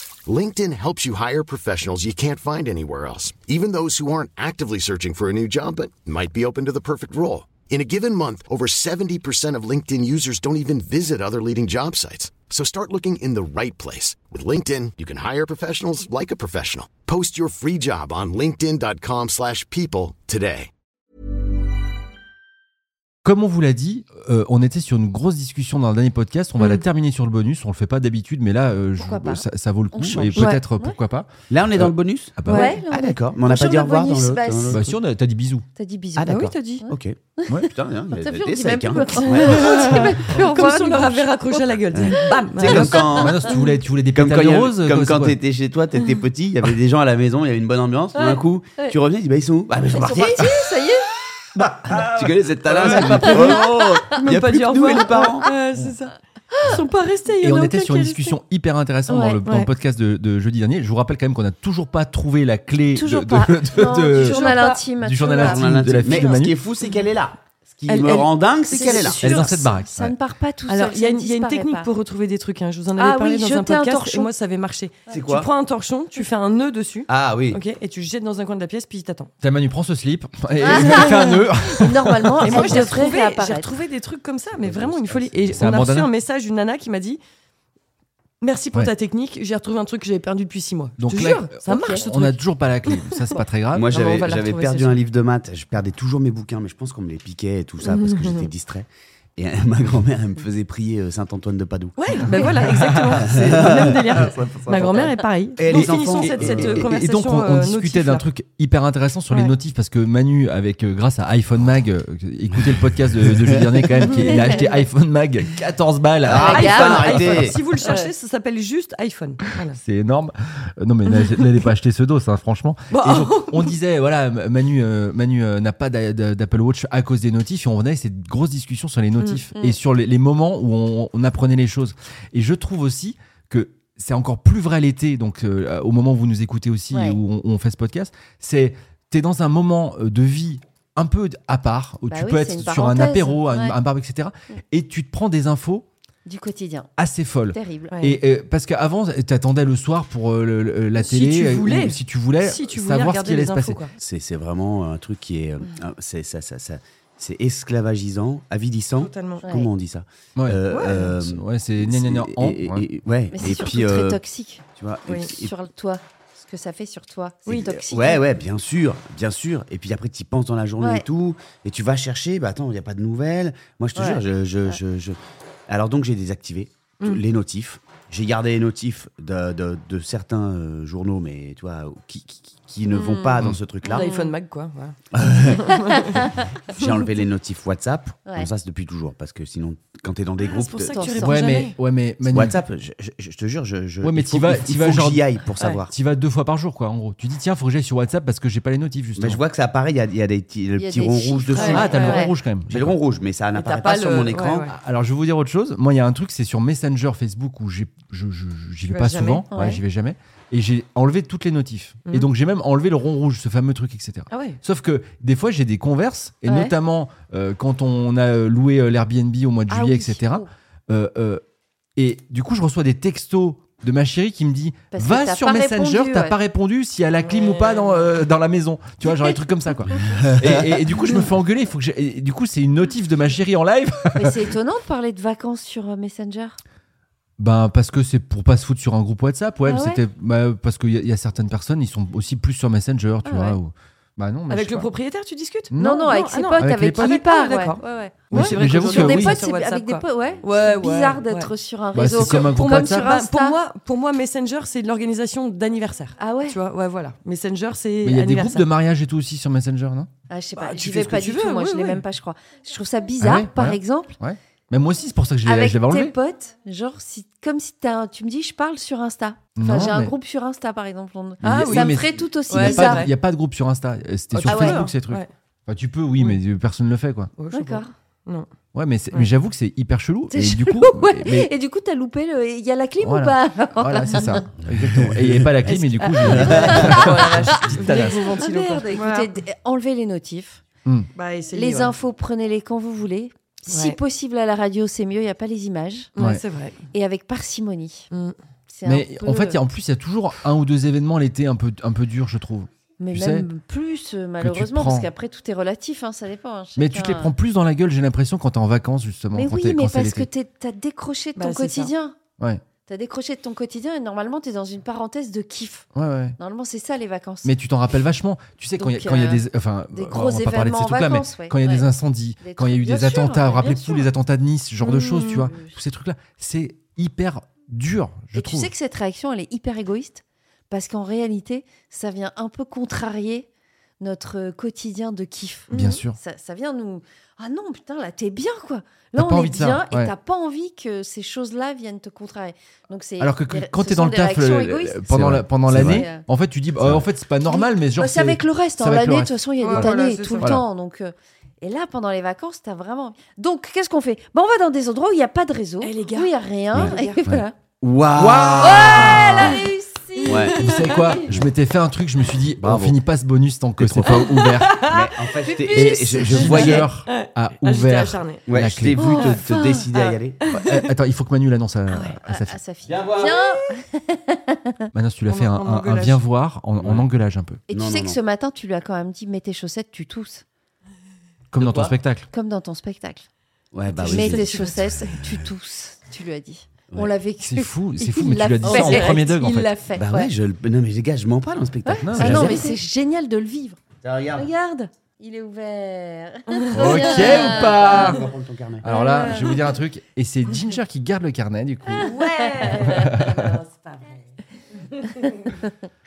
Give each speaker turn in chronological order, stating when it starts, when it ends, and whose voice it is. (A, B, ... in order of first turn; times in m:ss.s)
0:00.3-0:20.7 A
0:23.2-0:32.8 B
0:29.0-0:31.0 C
0:30.4-0:30.6 D
0:31.5-0:32.4 E
0:32.5-0:34.9 C
0:32.9-0:35.0 E
0:34.7-0:35.6 B
0:35.8-0:43.6 C
0:36.2-0:39.7 E
0:39.2-0:43.2 D
0:41.9-0:43.5 E
0:42.6-0:45.4 B
0:44.1-0:50.5 E
0:48.2-0:49.0 C
0:49.9-0:51.1 C
0:51.6-0:53.3 B
0:52.1-0:55.5 E
0:52.9-0:58.4 D
0:53.2-0:54.2 C
0:56.5-0:56.8 C
0:57.4-1:06.5 B
0:59.1-0:59.4 C
0:59.4-0:59.7 D
1:02.9-1:06.3 C
1:04.1-1:04.8 D
1:05.4-1:09.4 E
1:07.9-1:09.7 D
1:08.7-1:11.9 C
1:09.1-1:10.2 B
1:10.7-1:19.3 D
1:13.0-1:14.3 C
1:15.1-1:15.5 E
1:17.1-1:17.6 E
1:19.4-1:22.7 B
1:20.6-1:23.7 C
1:22.4-1:27.2 D
1:24.6-1:25.6 E
1:25.5-1:26.1 B
1:28.4-1:35.0 D
1:31.0-1:33.9 B
1:31.6-1:32.0 C
1:33.7-1:46.9 E
1:37.8-1:38.5 D
1:42.0-1:48.3 D
1:45.7-1:57.6 B
1:53.2-1:53.7 E
1:56.2-1:57.6 E
1:56.3-1:57.2 C
1:56.4-1:59.8 D
1:57.8-1:58.1 C
1:59.8-2:25.9 B
2:01.1-2:01.6 D
2:02.9-2:03.8 D
2:09.2-2:09.7 D
2:16.9-2:17.2 C
2:22.1-2:23.8 C
2:26.2-2:26.9 C
2:27.0-2:33.8 B
2:27.5-2:28.0 C
2:27.9-2:28.2 D
2:31.0-2:34.0 D
2:34.0-2:44.2 E
2:39.0-2:39.5 D
2:39.4-2:39.7 C
2:40.7-2:41.2 D
2:41.2-2:42.9 B
2:43.3-2:44.6 C
2:44.8-2:45.5 E
2:45.1-2:45.3 D
2:45.3-2:48.2 C
2:47.5-2:47.9 D
2:47.5-3:04.1 E
2:50.8-2:51.1 C
2:54.0-2:54.2 D
3:02.9-3:05.0 D
3:03.9-3:04.3 C
3:05.1-3:05.6 E
3:05.5-3:06.2 D
3:06.7-3:11.1 E
3:10.4-3:11.8 D
3:10.9-3:11.3 C
3:11.2-3:12.6 B
3:12.2-3:15.9 E
3:14.0-3:15.2 B
3:15.9-3:19.4 B
3:19.2-3:22.1 E
3:20.8-3:22.3 C
3:21.5-3:22.3 D
3:21.7-3:22.9 B
3:22.7-3:24.6 E
3:23.5-3:24.7 D
3:24.7-3:41.4 B
3:28.9-3:29.5 D
3:29.5-3:29.8 C
3:34.3-3:34.6 D
3:36.5-3:36.7 C
3:39.7-3:40.5 C
3:42.0-3:54.5 B
3:44.9-3:46.4 C
3:50.1-3:50.7 E
3:54.2-3:56.6 C
3:57.4-4:04.9 B
3:59.7-4:00.0 C
4:03.2-4:03.6 C
4:04.5-4:18.7 D
4:05.7-4:07.2 B
4:05.8-4:07.8 C
4:08.3-4:09.4 B
4:08.4-4:13.6 C
4:11.9-4:13.1 B
4:16.2-4:16.6 C
4:18.0-4:20.1 B
4:20.3-4:24.2 C
4:20.5-4:22.0 D
4:23.2-4:26.1 B
4:25.4-4:33.1 C
4:29.6-4:30.1 B
4:31.4-4:33.1 D
4:31.4-4:37.3 B
4:34.3-4:35.3 D
4:34.4-4:34.9 C
4:37.4-4:38.5 D
4:37.5-4:37.9 C
4:38.8-4:41.5 B
4:40.3-4:44.5 C
4:43.0-4:48.3 B
4:44.8-4:45.5 E
4:45.6-4:49.3 D
4:46.3-4:47.2 C
4:48.3-4:50.6 C
4:51.1-4:52.0 D
4:51.5-4:56.2 C
4:53.7-4:54.0 D
4:56.2-4:56.8 D
4:56.9-4:58.1 C
4:58.1-4:58.4 D
4:58.7-4:59.6 C
4:58.8-5:03.5 B
5:03.0-5:07.3 C
5:04.4-5:05.1 B
5:06.8-5:10.3 B
5:09.3-5:12.2 C
5:11.4-5:11.9 D
5:12.9-5:15.9 C
5:16.0-5:16.4 B
5:16.4-5:17.6 C
5:17.4-5:28.7 B
5:18.8-5:21.9 C
5:22.4-5:24.1 C
5:25.1-5:25.4 D
5:25.2-5:25.7 C
5:28.4-5:33.5 C
5:34.0-5:46.2 C
5:35.7-5:36.0 D
5:35.7-5:36.2 B
5:39.2-5:40.1 B
5:43.2-5:50.6 B
5:45.1-5:46.0 E
5:46.8-5:47.0 E
5:47.4-5:57.5 C
5:49.6-5:50.6 D
5:55.8-5:57.2 D
5:57.8-5:59.2 E
5:58.2-5:59.5 B
5:58.6-6:01.2 C
6:00.2-6:01.2 D
6:00.3-6:00.6 E
6:00.6-6:04.9 B
6:01.3-6:01.5 E
6:02.6-6:03.0 E
6:03.8-6:06.9 E
6:04.1-6:05.5 D
6:05.4-6:06.8 C
6:05.8-6:09.2 B
6:06.5-6:08.5 D
6:08.5-6:10.4 E
6:09.0-6:10.2 C
6:09.0-6:09.4 D
6:10.5-6:10.9 D
6:10.5-6:12.6 B
6:11.9-6:12.2 D
6:12.3-6:14.9 C
6:12.8-6:13.4 E
6:14.9-6:17.6 B
6:15.3-6:16.3 D
6:16.8-6:17.1 E
6:17.7-6:20.4 C
6:17.7-6:18.2 E
6:21.5-6:22.3 B
6:21.6-6:21.9 E
6:22.3-6:23.3 C
6:23.7-6:24.5 E
6:23.9-6:25.2 D
6:24.0-6:30.3 C
6:27.4-6:29.7 B
6:28.6-6:29.1 D
6:30.0-6:32.6 E
6:31.8-6:33.8 C
6:32.1-6:32.6 B
6:32.5-6:32.8 D
6:34.0-6:34.5 E
6:34.4-6:38.2 C
6:36.5-6:38.2 D
6:36.7-6:38.2 B
6:37.7-6:38.9 E
6:38.8-6:42.2 B
6:38.9-6:39.7 D
6:38.9-6:39.5 C
6:41.9-6:43.1 C
6:41.9-6:44.2 D
6:42.7-6:43.6 B
6:45.0-6:45.6 D